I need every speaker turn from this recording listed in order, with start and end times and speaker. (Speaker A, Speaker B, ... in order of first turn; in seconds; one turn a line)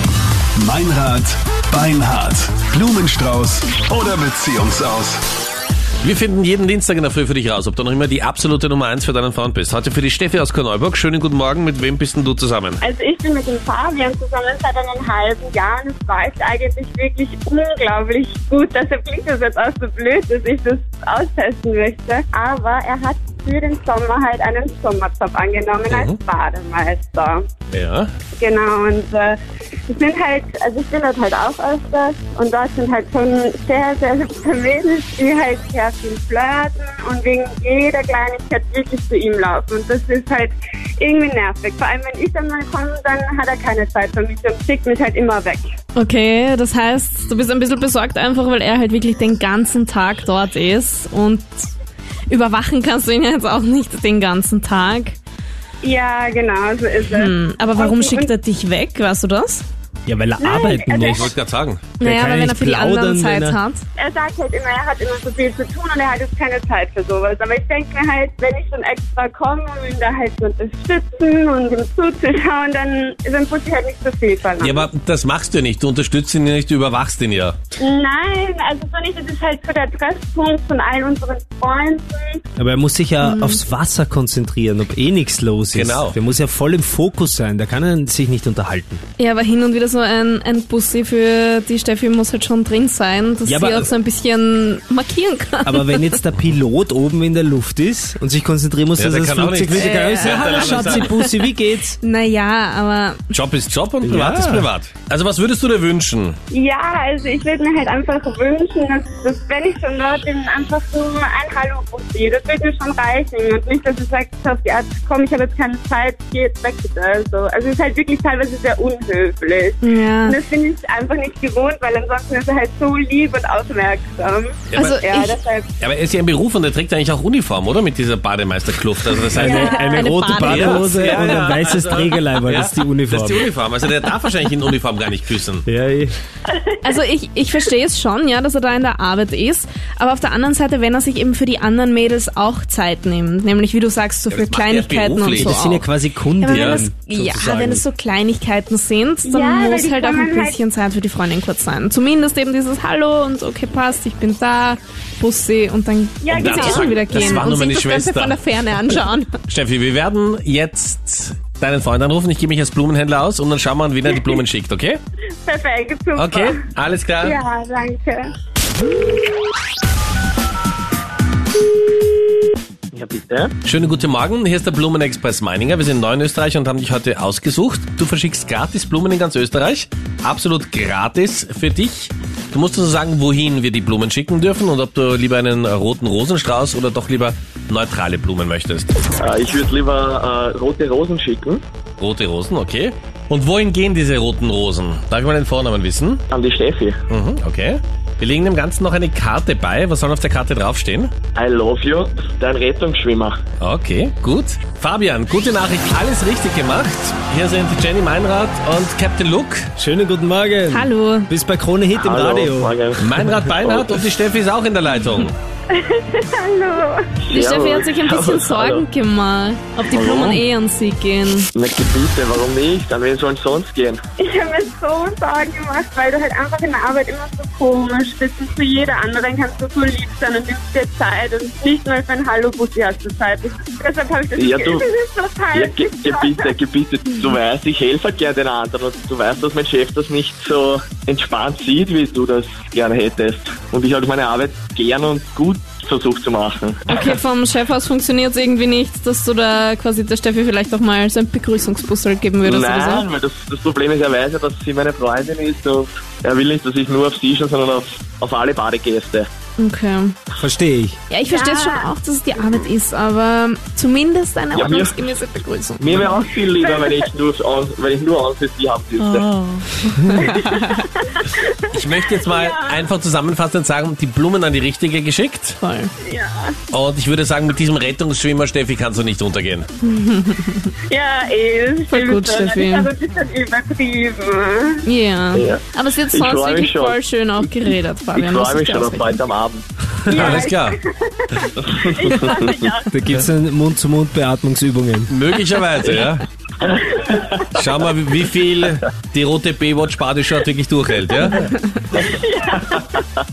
Speaker A: 0.6-5.2
Speaker B: 6.0-12.8
Speaker C: 12.8-27.4
Speaker B: 25.9-26.2
Speaker B: 27.7-28.1
Speaker C: 28.4-29.4
Speaker C: 29.9-45.6
Speaker D: 45.9-51.7
Speaker D: 52.3-55.2
Speaker C: 55.8-58.3
Speaker D: 57.1-59.6
Speaker E: 60.0-61.3
Speaker C: 60.4-61.4
Speaker B: 61.0-61.8
Speaker D: 62.0-63.9
Speaker E: 62.0-63.6
Speaker C: 64.0-74.9
Speaker B: 74.6-77.5
Speaker C: 77.8-82.4
Speaker E: 82.6-89.0
Speaker D: 83.2-83.6
Speaker B: 85.7-86.2
Speaker D: 89.2-96.2
Speaker E: 93.4-93.9
Speaker E: 95.6-102.0
Speaker B: 99.0-101.1
Speaker D: 99.7-103.2
Speaker B: 103.3-106.4
Speaker E: 104.0-104.7
Speaker C: 106.5-125.7
Speaker D: 119.8-120.4
Speaker B: 124.7-125.0
Speaker D: 124.7-125.3
Speaker B: 125.8-129.7
Speaker E: 129.3-133.5
Speaker C: 129.4-130.0
Speaker D: 129.4-131.4
Speaker B: 130.4-135.6
Speaker E: 135.7-136.2
Speaker D: 136.8-145.8
Speaker B: 144.3-145.8
Speaker E: 145.4-147.8
Speaker D: 146.4-159.3
Speaker B: 146.5-146.8
Speaker C: 149.2-150.6
Speaker C: 156.2-157.5
Speaker B: 156.3-158.4
Speaker B: 159.5-165.0
Speaker C: 165.4-166.6
Speaker B: 166.2-167.4
Speaker C: 167.2-168.3
Speaker F: 172.9-173.5
Speaker B: 173.6-188.9
Speaker F: 189.2-191.6
Speaker B: 192.0-196.2
Speaker F: 196.3-197.0
Speaker B: 197.1-201.1
Speaker F: 201.3-203.4
Speaker B: 203.6-209.7
Speaker E: 209.8-212.7
Speaker D: 210.7-211.3
Speaker F: 211.9-213.1
Speaker B: 213.0-215.3
Speaker F: 213.6-214.0
Speaker C: 215.7-217.0
Speaker F: 217.2-218.8
Speaker D: 217.3-221.5
Speaker F: 219.8-220.4
Speaker F: 221.5-224.0
Speaker C: 224.2-236.5
Speaker F: 234.4-234.8
Speaker F: 235.5-246.8
Speaker D: 246.9-253.1
Speaker F: 252.4-259.3
Speaker D: 259.6-260.2
Speaker E: 260.4-261.0
Speaker D: 261.1-266.1
Speaker C: 261.3-261.9
Speaker F: 264.5-265.1
Speaker F: 265.8-269.3
Speaker C: 266.6-267.1
Speaker D: 269.0-270.8
Speaker C: 270.2-272.9
Speaker B: 271.7-275.6
Speaker D: 275.6-275.9
Speaker C: 276.0-276.6
Speaker B: 276.7-279.7
Speaker D: 279.8-280.7
Speaker C: 280.9-284.8
Speaker D: 281.9-282.9
Speaker D: 284.8-289.2
Speaker F: 285.3-287.0
Speaker F: 288.1-289.6
Speaker C: 290.0-293.1
Speaker B: 290.1-290.8
Speaker F: 291.7-292.5
Speaker E: 292.9-295.1
Speaker B: 295.1-296.2
Speaker C: 296.9-297.4
Speaker B: 297.5-302.0
Speaker C: 301.9-303.0